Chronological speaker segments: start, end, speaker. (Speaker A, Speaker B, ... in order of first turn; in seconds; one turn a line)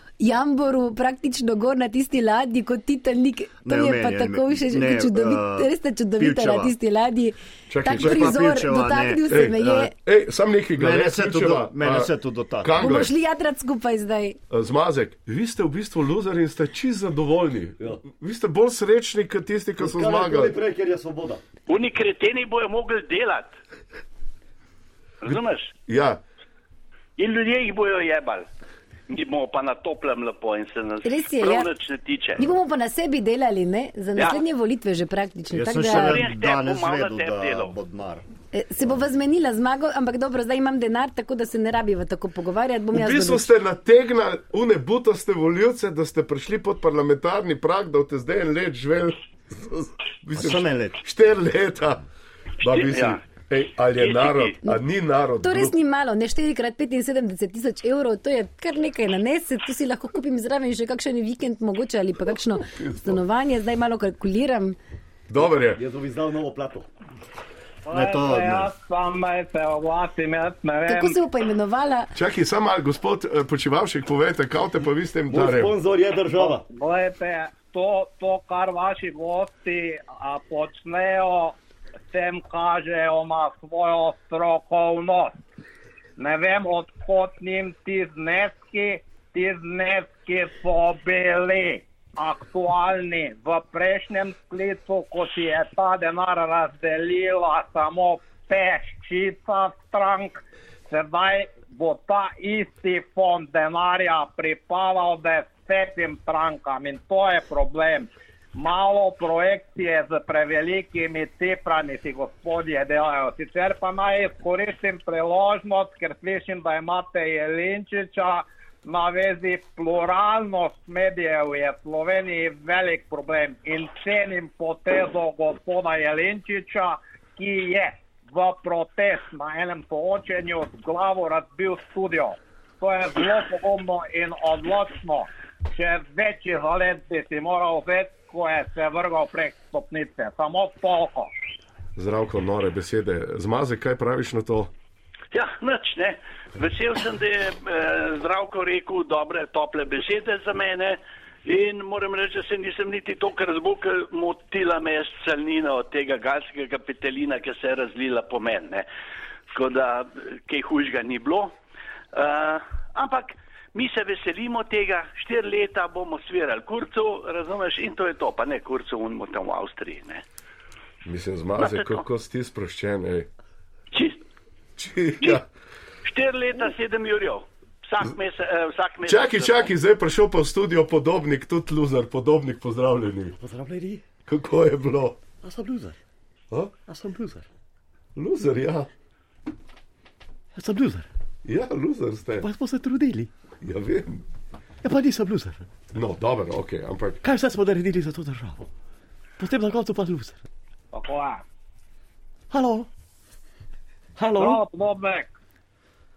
Speaker A: 0.2-9.9
Speaker B: 3.6-6.7
Speaker C: 7.7-8.4
Speaker B: 7.9-9.9
Speaker C: 9.3-13.1
Speaker B: 10.8-13.0
Speaker A: 12.8-14.4
Speaker C: 14.5-20.6
Speaker D: 19.8-21.4
Speaker E: 21.7-23.5
Speaker E: 25.2-25.7
Speaker C: 25.9-26.2
Speaker E: 27.2-28.4
Speaker E: 29.1-32.5
Speaker A: 31.0-31.7
Speaker A: 32.4-36.2
Speaker B: 35.5-38.2
Speaker E: 35.8-37.8
Speaker A: 38.5-43.5
Speaker C: 42.9-52.0
Speaker B: 50.3-51.0
Speaker C: 52.6-55.7
Speaker E: 52.6-53.2
Speaker E: 54.0-54.5
Speaker A: 55.4-64.8
Speaker C: 62.7-63.2
Speaker C: 65.3-65.8
Speaker D: 65.7-66.9
Speaker F: 67.9-71.2
Speaker B: 67.9-68.7
Speaker A: 70.9-72.1
Speaker C: 72.1-75.7
Speaker D: 75.3-76.6
Speaker F: 76.3-81.5
Speaker F: 82.1-85.4
Speaker F: 86.2-141.3
Speaker C: 141.9-144.7
Speaker E: 145.3-158.8
Speaker E: 159.5-161.5
Speaker E: 162.1-170.2
Speaker C: 171.0-173.3
Speaker E: 171.6-172.0
Speaker E: 173.9-174.2
Speaker C: 174.8-175.4
Speaker E: 176.0-179.7
Speaker C: 179.0-183.3
Speaker D: 183.4-184.0
Speaker C: 184.3-185.2
Speaker D: 185.4-185.9
Speaker D: 186.9-187.5
Speaker C: 188.1-188.9
Speaker D: 190.5-191.1
Speaker C: 191.4-192.5
Speaker D: 192.4-193.3
Speaker C: 193.6-194.2
Speaker D: 194.8-195.7
Speaker C: 195.9-197.2
Speaker D: 197.2-198.7
Speaker D: 199.4-200.4
Speaker F: 200.9-201.4
Speaker D: 202.5-202.9
Speaker D: 204.2-204.6
Speaker F: 204.3-205.3